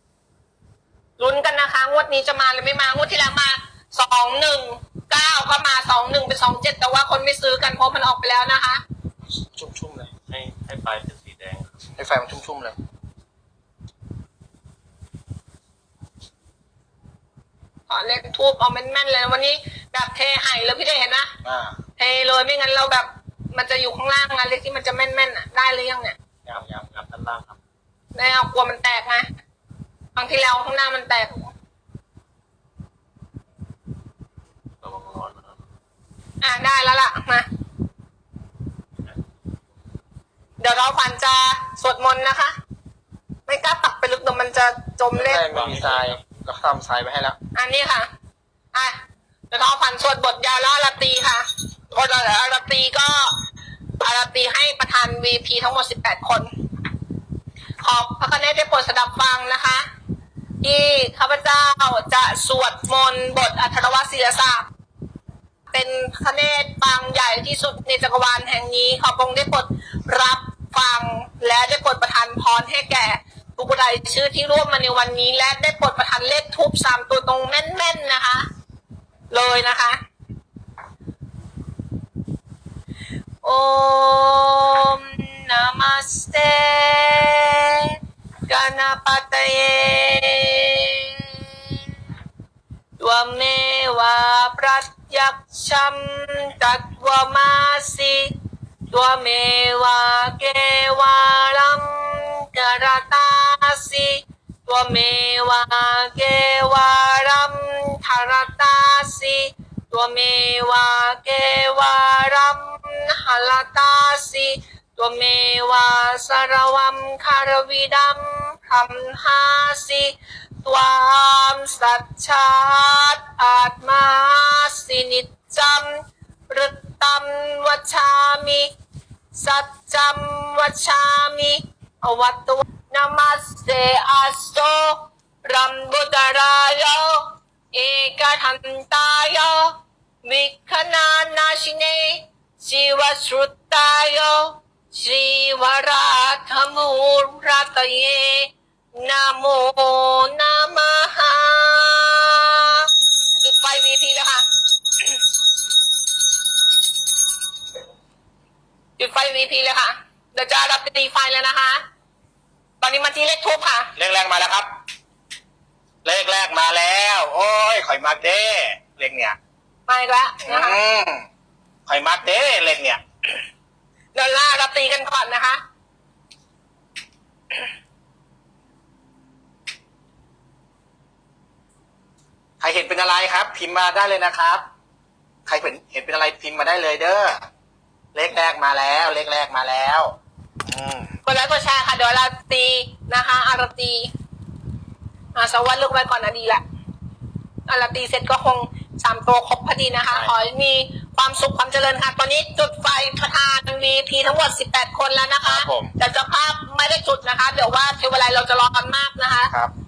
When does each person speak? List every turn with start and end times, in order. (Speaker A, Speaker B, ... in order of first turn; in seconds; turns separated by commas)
Speaker A: 1.2-8.8, Speaker B: 9.6-10.2, Speaker C: 10.3-11.8, Speaker B: 12.0-12.8, Speaker A: 17.9-21.3, Speaker B: 21.4-21.8, Speaker A: 22.0-26.2, Speaker B: 26.5-27.5, Speaker C: 26.8-27.4, Speaker A: 28.1-29.3, Speaker A: 30.1-31.5, Speaker C: 34.8-35.4, Speaker A: 36.4-37.5, Speaker A: 40.6-42.5, Speaker A: 43.5-45.5, Speaker B: 45.1-47.4, Speaker C: 45.5-46.1, Speaker A: 47.5-48.1, Speaker A: 48.7-49.0, Speaker A: 49.5-53.4, Speaker A: 54.0-56.5, Speaker A: 57.8-59.9, Speaker A: 60.6-64.7, Speaker A: 65.7-78.5, Speaker A: 79.3-80.0, Speaker A: 83.4-91.4, Speaker A: 93.0-98.3, Speaker A: 98.9-128.7, Speaker A: 129.3-154.5, Speaker A: 159.0-161.8, Speaker A: 162.8-163.9, Speaker B: 164.0-164.7, Speaker B: 166.1-169.4, Speaker A: 169.9-170.8, Speaker B: 170.4-171.3, Speaker B: 171.9-173.0, Speaker A: 174.1-175.6, Speaker B: 182.6-184.6, Speaker B: 185.5-187.5, Speaker B: 188.1-190.2, Speaker B: 190.7-191.1, Speaker A: 191.2-194.1, Speaker A: 195.3-196.6, Speaker A: 197.7-209.5, Speaker B: 205.4-205.9